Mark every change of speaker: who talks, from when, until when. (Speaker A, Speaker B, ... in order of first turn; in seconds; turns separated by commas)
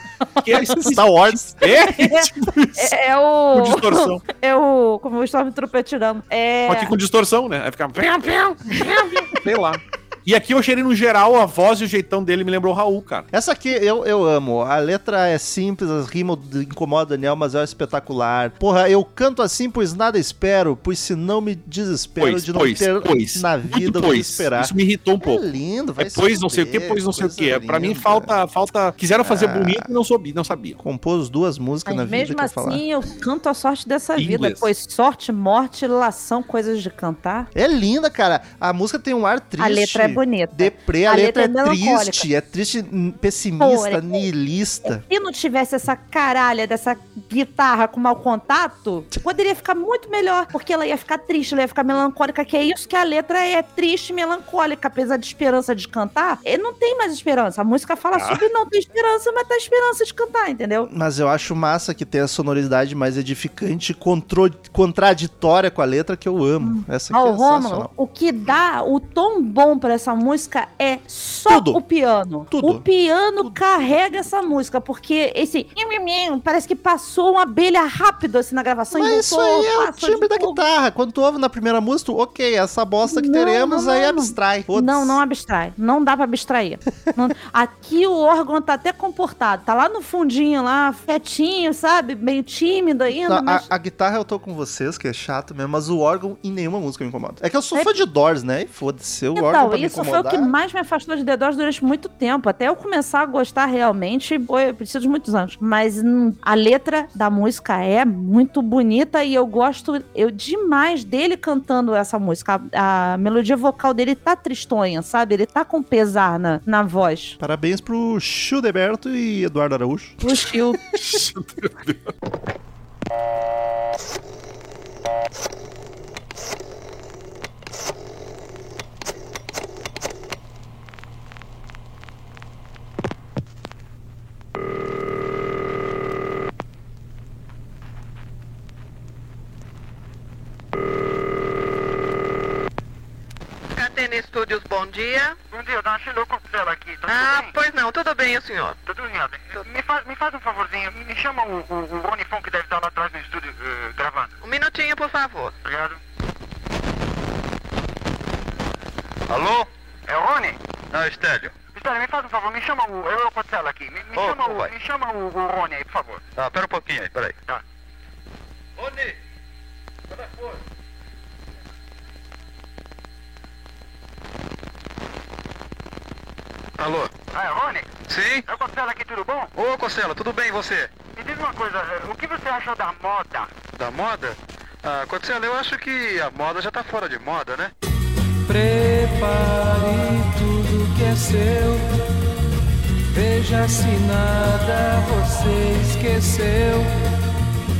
Speaker A: 0.4-2.9, Speaker B: 0.8-1.7, Speaker C: 1.7-6.9, Speaker A: 3.5-4.2, Speaker A: 6.7-13.3, Speaker B: 13.3-28.3, Speaker A: 22.2-25.4, Speaker A: 26.0-30.8, Speaker B: 29.2-29.9, Speaker B: 30.8-32.8, Speaker C: 31.9-37.5, Speaker A: 34.2-34.7, Speaker B: 37.5-45.0, Speaker C: 39.6-42.2, Speaker C: 43.6-44.2, Speaker C: 44.9-60.9, Speaker A: 58.1-58.4, Speaker B: 60.9-67.9, Speaker C: 66.6-80.6, Speaker B: 71.5-71.8, Speaker B: 72.5-72.8, Speaker B: 78.9-85.2, Speaker C: 83.0-93.7, Speaker B: 93.1-100.5, Speaker C: 97.7-98.0, Speaker C: 99.3-117.4, Speaker B: 117.4-120.2, Speaker C: 120.2-120.8, Speaker A: 120.9-122.1, Speaker D: 143.7-145.4, Speaker E: 145.5-147.6, Speaker D: 147.1-148.8, Speaker E: 148.8-154.3, Speaker D: 154.4-155.5, Speaker E: 155.6-156.0, Speaker F: 159.3-159.7, Speaker E: 160.1-160.6, Speaker F: 160.9-161.6, Speaker E: 161.7-166.2, Speaker F: 166.4-167.3, Speaker F: 168.8-169.1, Speaker F: 176.8-177.2, Speaker E: 177.3-179.5, Speaker F: 178.1-178.4, Speaker F: 179.6-180.9, Speaker E: 181.1-183.6, Speaker F: 183.7-187.7, Speaker G: 188.4-191.9, Speaker G: 193.1-196.9